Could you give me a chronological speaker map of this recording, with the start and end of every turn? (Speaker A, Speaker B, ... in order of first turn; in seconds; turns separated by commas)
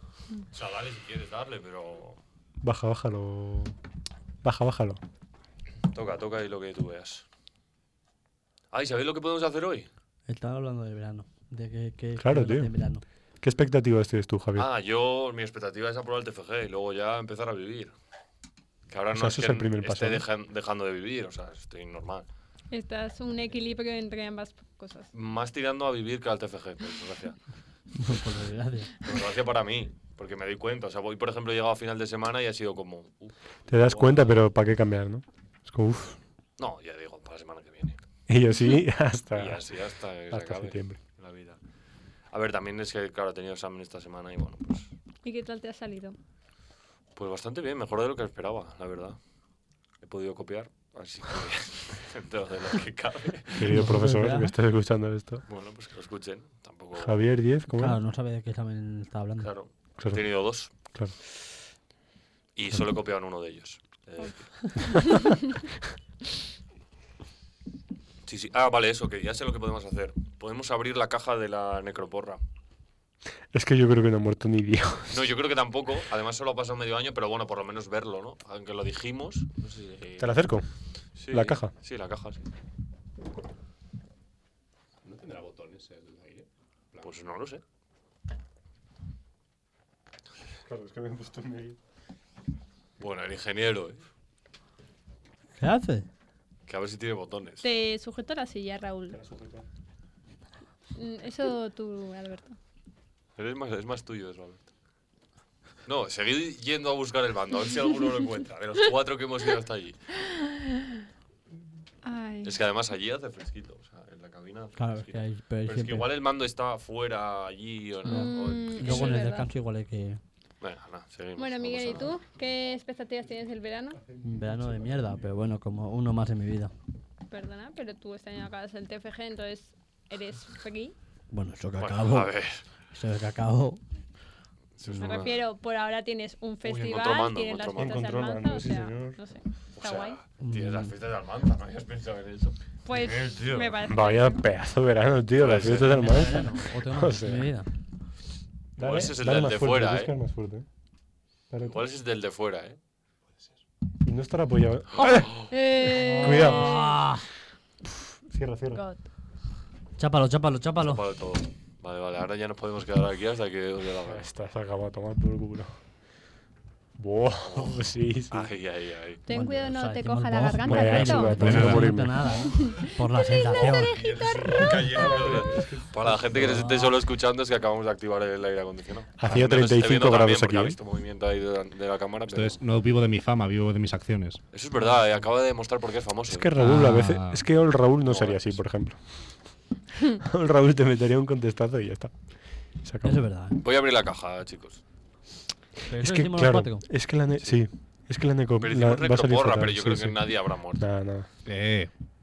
Speaker A: 0.5-2.2, Speaker B: 2.6-3.8, Speaker B: 4.4-5.0, Speaker A: 5.9-7.2, Speaker A: 8.7-9.9, Speaker C: 10.3-13.0, Speaker B: 12.2-12.7, Speaker B: 13.4-14.7, Speaker A: 14.6-17.9, Speaker A: 18.9-22.3, Speaker B: 19.1-20.2, Speaker D: 22.7-25.1, Speaker A: 25.1-27.4, Speaker C: 27.9-28.9, Speaker A: 29.0-34.4, Speaker B: 33.7-36.2, Speaker A: 36.6-38.0, Speaker B: 38.3-39.6, Speaker A: 39.4-41.6, Speaker B: 40.3-41.0, Speaker A: 42.3-44.9, Speaker D: 45.2-46.2, Speaker A: 47.2-49.2, Speaker A: 50.0-53.8, Speaker B: 53.6-55.4, Speaker C: 53.7-54.5, Speaker A: 55.5-57.2, Speaker B: 57.0-58.0, Speaker C: 57.7-59.5, Speaker A: 59.4-60.7, Speaker B: 60.0-61.1, Speaker A: 62.5-64.8, Speaker D: 64.2-65.5, Speaker A: 68.3-72.4, Speaker B: 73.5-75.2, Speaker A: 75.1-80.4, Speaker B: 80.2-80.7, Speaker A: 81.2-82.4, Speaker B: 81.3-81.7, Speaker E: 85.0-87.1, Speaker A: 87.0-87.6, Speaker B: 90.6-91.8, Speaker A: 93.0-94.0, Speaker C: 95.6-96.1, Speaker A: 96.7-97.7, Speaker D: 97.6-99.2, Speaker B: 99.1-99.6, Speaker D: 101.0-102.5, Speaker A: 103.4-104.6, Speaker A: 105.9-110.0, Speaker D: 110.2-111.0, Speaker D: 112.0-112.6, Speaker A: 112.4-119.2, Speaker C: 114.8-116.1, Speaker D: 118.1-119.5, Speaker C: 118.1-120.2, Speaker A: 120.6-122.1, Speaker D: 121.4-124.0, Speaker B: 124.1-124.8, Speaker C: 124.2-126.7, Speaker D: 127.3-130.9, Speaker C: 131.3-132.3, Speaker A: 131.8-132.6, Speaker C: 132.9-133.8, Speaker A: 134.8-135.4, Speaker D: 135.0-140.2, Speaker A: 136.6-138.0, Speaker B: 137.8-139.2, Speaker A: 139.8-143.8, Speaker C: 140.4-140.9, Speaker D: 142.9-144.4, Speaker B: 143.9-147.5, Speaker A: 145.4-146.4, Speaker C: 145.8-147.7, Speaker B: 148.8-150.7, Speaker A: 148.8-150.1, Speaker B: 151.5-151.8, Speaker A: 151.7-152.8, Speaker B: 154.0-155.5, Speaker A: 155.0-155.4, Speaker D: 155.0-157.0, Speaker C: 156.0-157.3, Speaker B: 156.2-156.8, Speaker B: 158.3-158.8, Speaker D: 158.7-159.0, Speaker C: 160.0-161.1, Speaker A: 160.8-164.3, Speaker B: 164.1-165.7, Speaker B: 167.0-168.5, Speaker A: 167.5-169.2, Speaker D: 169.3-174.8, Speaker C: 169.3-174.0, Speaker B: 170.7-172.3, Speaker E: 171.4-172.0, Speaker A: 173.6-182.6, Speaker B: 174.4-176.7, Speaker C: 176.3-176.9, Speaker B: 179.2-180.8, Speaker E: 182.3-184.4, Speaker A: 184.5-186.5, Speaker B: 186.3-189.5, Speaker E: 186.6-187.4, Speaker A: 188.1-188.6, Speaker B: 190.2-193.3, Speaker C: 193.0-193.6, Speaker A: 193.6-194.8, Speaker C: 195.9-196.9, Speaker B: 196.0-201.3, Speaker A: 198.6-200.8, Speaker E: 201.5-201.9